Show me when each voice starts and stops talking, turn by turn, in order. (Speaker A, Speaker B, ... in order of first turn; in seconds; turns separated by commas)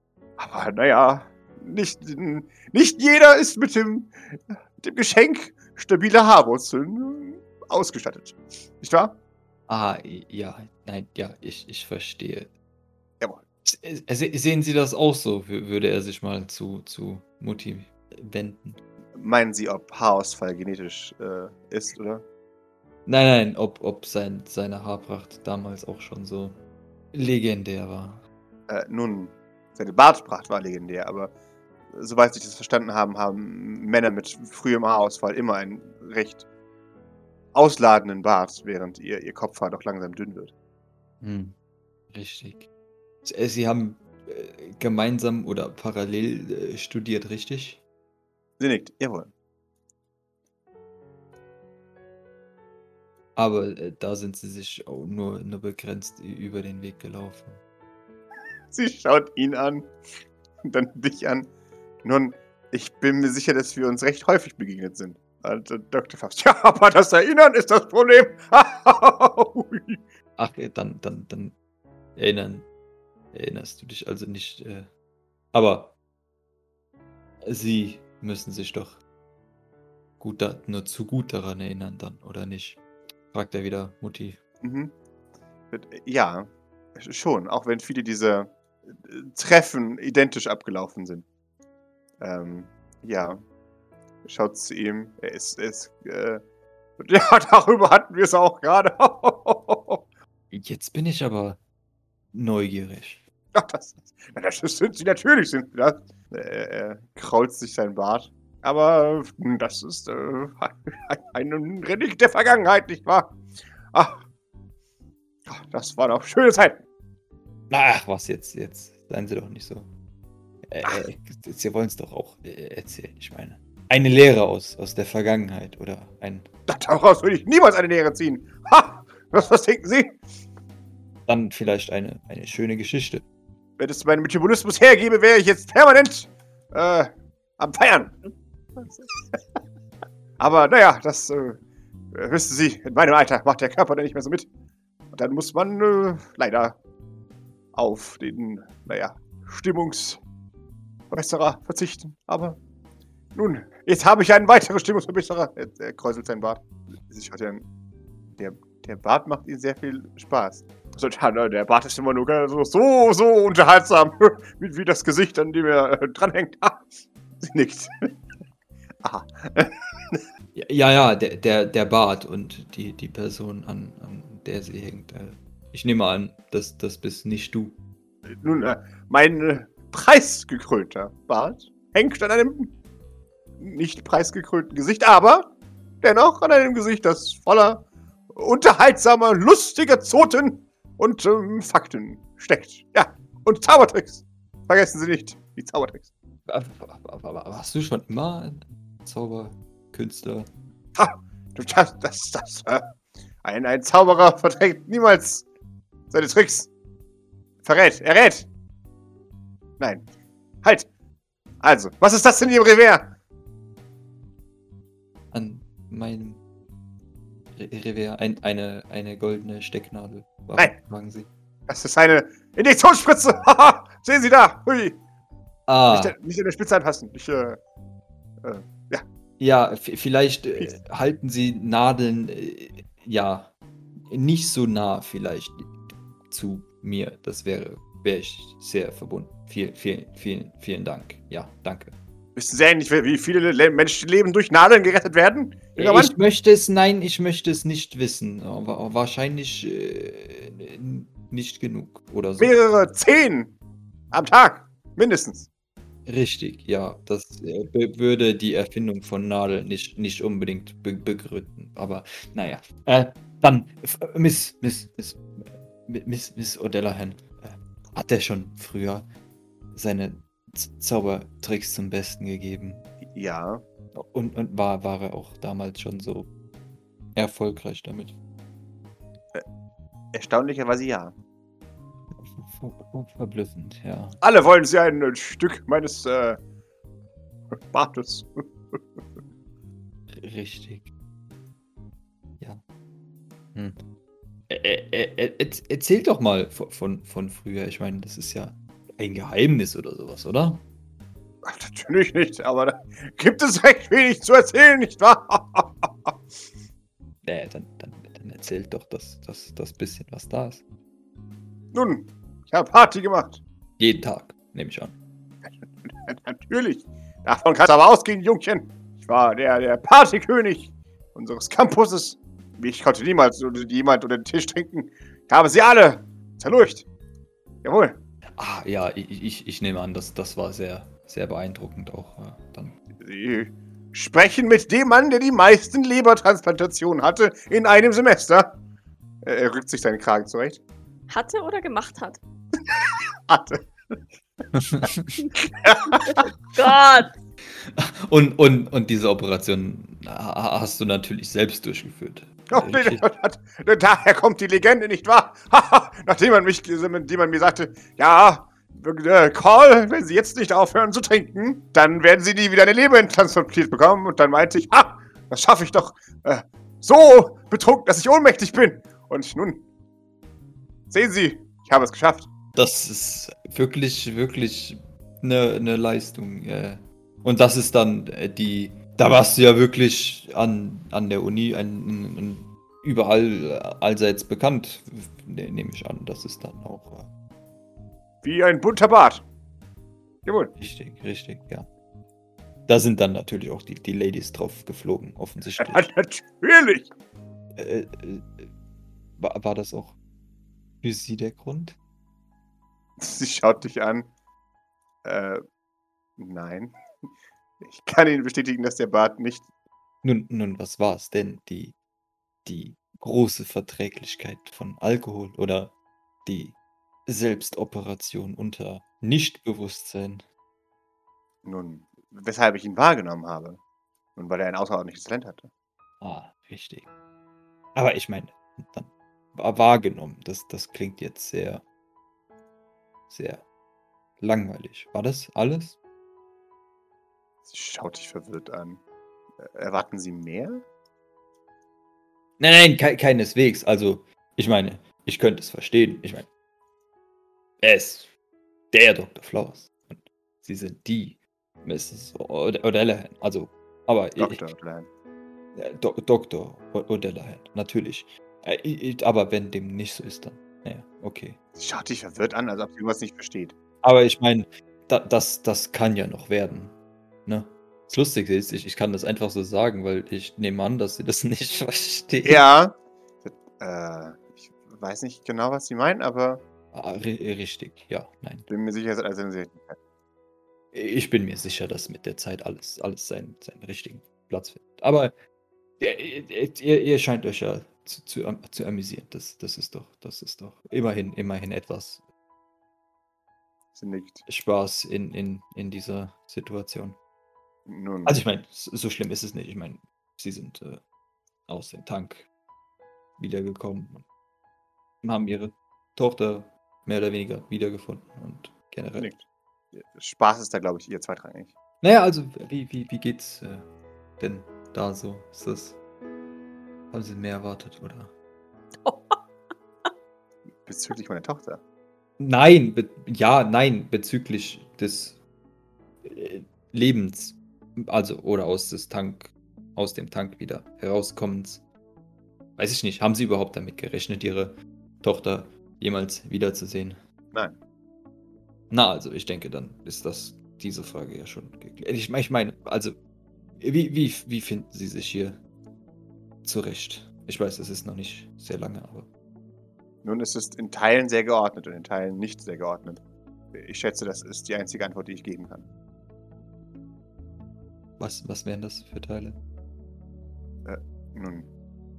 Speaker A: 0.4-9.2, Speaker B: 9.7-12.5, Speaker B: 13.6-18.8, Speaker A: 19.1-22.2, Speaker B: 23.1-26.6, Speaker B: 27.1-28.2, Speaker A: 28.7-31.3, Speaker A: 31.9-36.5, Speaker A: 37.5-40.5, Speaker B: 41.2-41.5, Speaker B: 42.1-42.7, Speaker B: 43.2-47.8, Speaker A: 48.6-49.3, Speaker B: 53.4-57.6, Speaker A: 58.7-59.9, Speaker A: 60.6-61.5, Speaker A: 62.0-70.0, Speaker B: 70.4-71.5, Speaker B: 72.2-72.7, Speaker B: 73.3-74.9, Speaker B: 75.5-75.9, Speaker B: 77.4-79.0, Speaker B: 80.2-82.8, Speaker B: 83.3-84.4, Speaker A: 84.6-84.9, Speaker A: 85.7-91.2, Speaker A: 92.2-93.4, Speaker A: 94.2-96.4, Speaker A: 97.0-100.0, Speaker B: 100.5-101.6, Speaker B: 102.3-103.2, Speaker A: 103.5-113.4, Speaker A: 113.9-114.2, Speaker A: 115.5-116.8, Speaker B: 117.7-119.9, Speaker B: 120.7-126.5, Speaker A: 126.7-130.2, Speaker B: 131.3-133.2, Speaker A: 133.8-138.2, Speaker A: 140.4-141.6, Speaker A: 142.1-144.5, Speaker A: 145.1-146.8, Speaker A: 147.7-150.2, Speaker A: 151.1-152.6, Speaker A: 153.3-157.7, Speaker A: 158.4-166.9, Speaker A: 167.4-168.1, Speaker A: 169.0-170.2, Speaker B: 170.5-177.8, Speaker A: 178.3-182.7, Speaker A: 183.6-196.1, Speaker B: 196.5-200.5, Speaker A: 200.9-202.8, Speaker A: 203.4-205.4, Speaker A: 206.1-206.7, Speaker A: 207.6-208.5, Speaker A: 209.8-210.0, Speaker A: 210.6-210.9, Speaker A: 211.6-213.1, Speaker B: 215.3-216.4, Speaker B: 217.5-221.3, Speaker A: 221.7-225.0, Speaker B: 225.7-226.1, Speaker A: 225.9-227.6, Speaker A: 228.4-229.0, Speaker B: 229.4-233.5, Speaker B: 234.1-235.7, Speaker B: 236.3-241.9, Speaker A: 242.3-246.1, Speaker B: 245.8-252.5, Speaker A: 252.4-253.6, Speaker A: 254.1-255.5, Speaker B: 256.1-269.1, Speaker B: 269.7-272.8, Speaker A: 273.1-273.6, Speaker B: 273.9-276.3, Speaker B: 277.1-278.1, Speaker A: 280.1-281.1, Speaker B: 282.1-284.2, Speaker A: 284.2-286.4, Speaker A: 287.5-289.0, Speaker B: 290.1-290.9, Speaker B: 294.5-300.6, Speaker A: 301.4-306.2, Speaker B: 307.2-310.6, Speaker A: 311.7-313.4, Speaker B: 313.8-314.9, Speaker A: 315.5-326.9, Speaker A: 327.6-328.0, Speaker B: 328.4-332.8, Speaker A: 332.9-338.6, Speaker A: 339.2-340.6, Speaker C: 341.1-342.2, Speaker A: 342.6-344.0, Speaker B: 344.5-345.2, Speaker A: 345.4-346.3, Speaker C: 345.8-347.1, Speaker B: 347.6-353.0, Speaker A: 352.5-369.6, Speaker A: 370.9-372.3, Speaker B: 372.5-387.1, Speaker A: 388.2-389.2, Speaker A: 390.2-390.5, Speaker B: 390.6-391.7, Speaker B: 392.7-395.9, Speaker A: 395.6-396.9, Speaker B: 397.6-398.5, Speaker B: 399.2-399.9, Speaker B: 400.8-401.8, Speaker A: 403.0-404.1, Speaker A: 405.0-405.4, Speaker A: 406.2-406.8, Speaker A: 407.6-409.4, Speaker B: 410.0-411.8, Speaker B: 412.4-415.7, Speaker B: 416.2-420.2, Speaker A: 421.4-423.6, Speaker A: 424.1-425.5, Speaker B: 426.0-426.9, Speaker B: 427.8-431.6, Speaker B: 433.1-433.4, Speaker B: 434.2-435.8, Speaker A: 437.4-438.8, Speaker A: 439.4-440.6, Speaker B: 442.4-446.3, Speaker B: 447.6-448.1, Speaker B: 448.7-454.4, Speaker A: 454.2-454.9, Speaker B: 455.5-461.4, Speaker A: 461.6-463.6, Speaker B: 463.8-466.7, Speaker B: 467.2-472.4, Speaker A: 472.2-476.4, Speaker B: 476.7-478.5, Speaker A: 478.5-479.8, Speaker B: 480.7-485.1, Speaker B: 485.8-492.0, Speaker A: 493.7-494.2, Speaker B: 494.3-497.0, Speaker A: 497.6-498.2, Speaker B: 498.1-500.8, Speaker B: 501.5-502.3, Speaker B: 503.2-504.0, Speaker B: 505.0-509.1, Speaker A: 509.0-511.5, Speaker B: 511.8-513.6, Speaker B: 514.2-515.8, Speaker B: 516.9-518.1, Speaker C: 518.8-519.2, Speaker A: 520.6-521.6, Speaker B: 522.2-525.2, Speaker B: 526.0-531.6, Speaker B: 532.6-537.0, Speaker B: 538.7-543.0, Speaker B: 543.6-545.4, Speaker B: 546.4-549.1, Speaker A: 550.0-553.0, Speaker A: 553.5-555.7, Speaker B: 558.0-559.4, Speaker A: 560.6-561.5